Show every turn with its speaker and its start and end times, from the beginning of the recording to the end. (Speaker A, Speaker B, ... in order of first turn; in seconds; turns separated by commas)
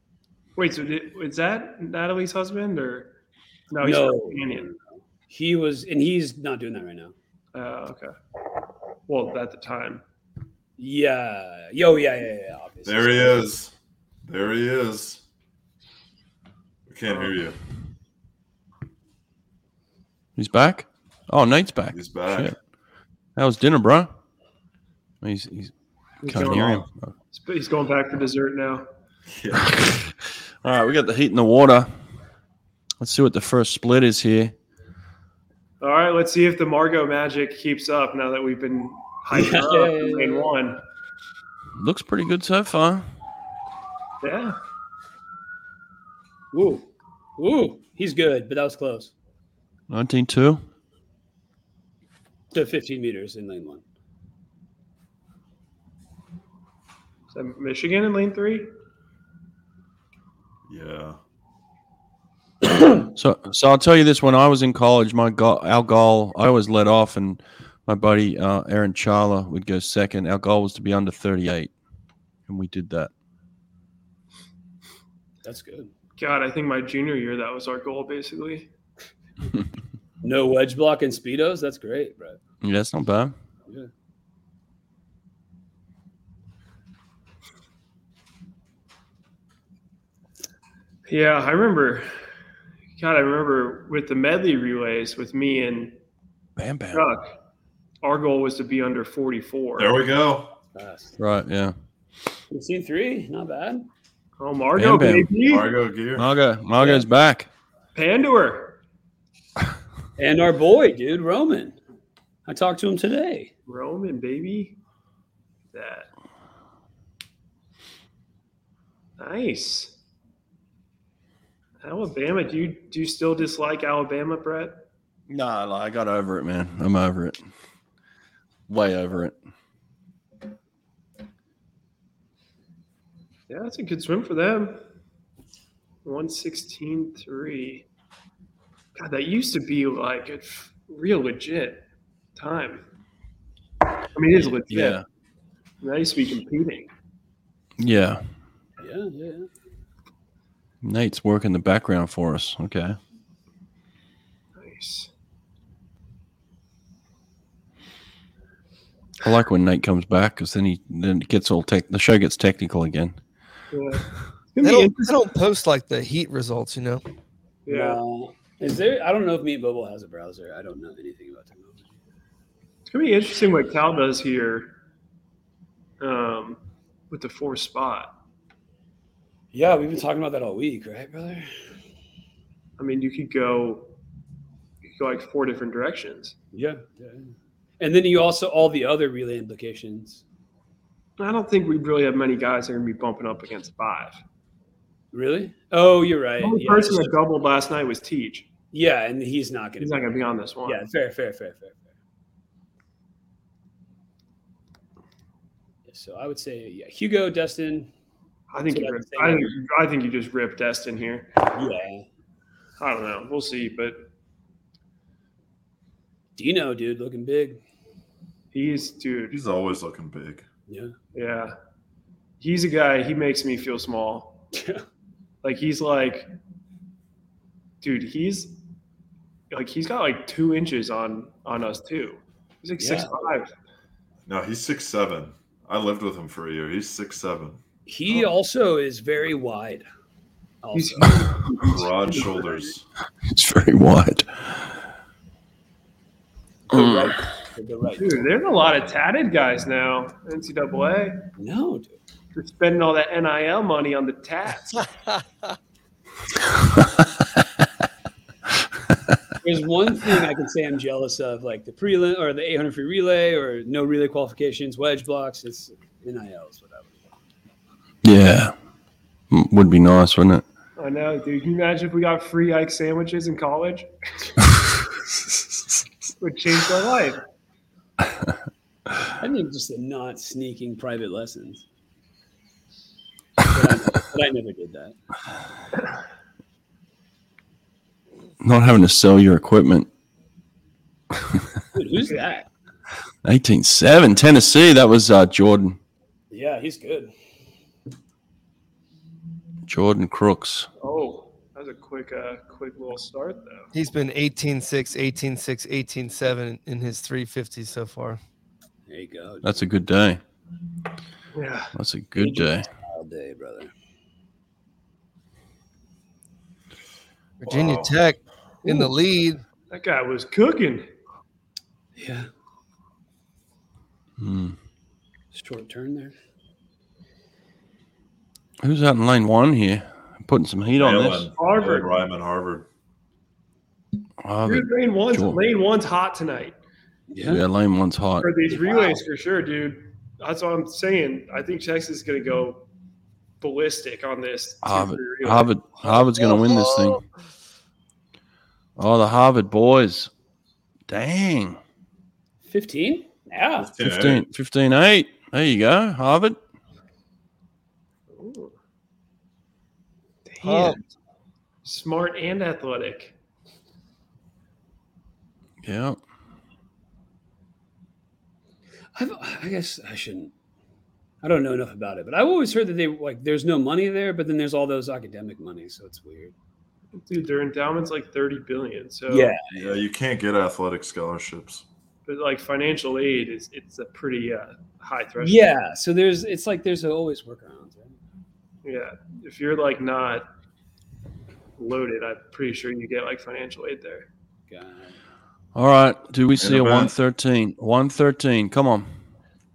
Speaker A: 0.6-3.1, Speaker A: 3.7-4.7, Speaker B: 3.8-7.1, Speaker A: 7.5-8.1, Speaker A: 9.1-10.0, Speaker B: 10.8-13.4, Speaker C: 12.8-13.7, Speaker C: 14.2-15.2, Speaker C: 16.9-17.6, Speaker A: 17.1-17.4, Speaker D: 20.4-22.6, Speaker C: 21.9-22.5, Speaker D: 23.4-24.1, Speaker D: 25.2-25.7, Speaker A: 26.2-28.9, Speaker D: 26.2-27.1, Speaker C: 29.3-29.8, Speaker D: 29.7-30.0, Speaker D: 30.6-31.9, Speaker D: 33.0-34.5, Speaker A: 35.8-40.8, Speaker B: 39.3-40.5, Speaker D: 41.8-43.0, Speaker A: 44.2-44.5, Speaker B: 46.5-49.1, Speaker D: 49.9-50.6, Speaker B: 52.5-53.8, Speaker A: 57.3-58.7, Speaker C: 60.7-61.2, Speaker D: 63.1-71.7, Speaker D: 72.5-73.1, Speaker B: 75.4-75.9, Speaker A: 76.2-78.7, Speaker B: 80.2-82.4, Speaker D: 82.6-83.3, Speaker A: 91.1-92.1, Speaker A: 93.0-95.9, Speaker D: 96.6-97.0, Speaker A: 96.9-97.3, Speaker A: 98.0-99.9, Speaker C: 99.8-100.5, Speaker B: 100.7-101.2, Speaker D: 101.2-101.7, Speaker B: 102.5-103.9, Speaker A: 104.4-105.7, Speaker D: 104.8-105.3, Speaker C: 105.5-106.3, Speaker D: 106.2-107.5, Speaker B: 106.8-107.0, Speaker A: 107.9-108.8, Speaker B: 110.2-111.8, Speaker B: 112.5-113.5, Speaker A: 113.7-114.8, Speaker A: 115.7-116.1, Speaker A: 119.2-119.9, Speaker A: 121.8-124.8, Speaker D: 125.3-127.4, Speaker D: 128.7-129.3, Speaker A: 133.5-134.8, Speaker A: 136.0-137.8, Speaker A: 138.9-142.8, Speaker A: 144.1-145.0, Speaker D: 144.7-145.0, Speaker A: 145.8-146.9, Speaker D: 147.8-148.2, Speaker B: 148.8-149.5, Speaker D: 150.8-153.0, Speaker A: 154.6-155.1, Speaker D: 159.2-163.2, Speaker A: 163.7-165.2, Speaker E: 164.6-167.0, Speaker A: 167.7-168.0, Speaker B: 167.7-171.9, Speaker A: 172.9-174.7, Speaker A: 176.0-176.6, Speaker A: 177.1-178.1, Speaker B: 179.5-181.4, Speaker A: 182.8-183.9, Speaker A: 184.8-186.3, Speaker B: 186.5-190.2, Speaker A: 191.2-194.2, Speaker B: 195.1-197.1, Speaker A: 196.4-198.5, Speaker B: 198.7-201.8, Speaker A: 199.8-200.8, Speaker B: 205.9-207.9, Speaker A: 208.5-211.4, Speaker B: 208.7-209.5, Speaker B: 211.5-212.1, Speaker A: 212.8-214.1, Speaker B: 216.3-217.6, Speaker A: 218.5-219.4, Speaker C: 219.3-220.4, Speaker B: 220.7-220.9, Speaker A: 221.1-221.5, Speaker A: 222.4-224.4, Speaker B: 224.5-224.8, Speaker A: 225.4-226.3, Speaker A: 227.8-228.6, Speaker A: 229.5-233.5, Speaker B: 232.8-233.2, Speaker C: 234.2-237.6, Speaker B: 237.8-239.9, Speaker B: 240.6-241.3, Speaker A: 240.7-242.7, Speaker C: 241.6-242.8, Speaker D: 243.2-244.8, Speaker B: 246.7-248.3, Speaker D: 246.7-247.2, Speaker A: 248.0-251.2, Speaker B: 251.4-252.0, Speaker A: 252.3-254.9, Speaker B: 259.4-267.1, Speaker D: 268.0-268.5, Speaker D: 269.3-270.4, Speaker A: 270.8-273.9, Speaker A: 276.2-277.2, Speaker B: 279.2-281.6, Speaker B: 283.5-284.9, Speaker D: 288.4-289.9, Speaker B: 291.7-292.5, Speaker D: 293.2-295.8, Speaker B: 296.3-297.1, Speaker D: 299.7-300.7, Speaker A: 300.8-303.7, Speaker E: 303.7-308.2, Speaker B: 308.9-309.7, Speaker D: 309.4-310.2, Speaker A: 311.3-311.7, Speaker D: 311.7-312.7, Speaker B: 312.2-313.7, Speaker E: 317.4-319.4, Speaker C: 317.4-317.9, Speaker A: 318.6-318.9, Speaker A: 319.7-320.9, Speaker B: 321.9-322.3, Speaker D: 324.2-324.6, Speaker B: 325.3-326.1, Speaker D: 328.6-331.3, Speaker C: 330.8-332.7, Speaker A: 331.4-331.9, Speaker D: 334.2-335.4, Speaker A: 334.4-336.6, Speaker B: 337.1-337.4, Speaker D: 337.2-338.3, Speaker A: 338.2-342.6, Speaker B: 338.5-339.0, Speaker A: 343.4-346.1, Speaker D: 344.6-347.0, Speaker D: 348.8-350.1, Speaker D: 350.9-351.6, Speaker B: 352.4-353.8, Speaker C: 353.6-354.2, Speaker D: 353.8-356.4, Speaker A: 358.1-358.5, Speaker A: 360.3-360.8, Speaker E: 360.4-360.8, Speaker A: 361.6-363.1, Speaker D: 365.6-366.0, Speaker B: 368.9-370.3, Speaker B: 371.2-376.3, Speaker A: 376.9-379.3, Speaker B: 379.1-379.8, Speaker C: 379.5-381.6, Speaker A: 382.1-385.6, Speaker B: 385.2-388.0, Speaker A: 388.6-390.3, Speaker A: 391.6-394.1, Speaker B: 394.5-394.9, Speaker D: 395.5-398.9, Speaker C: 396.4-396.9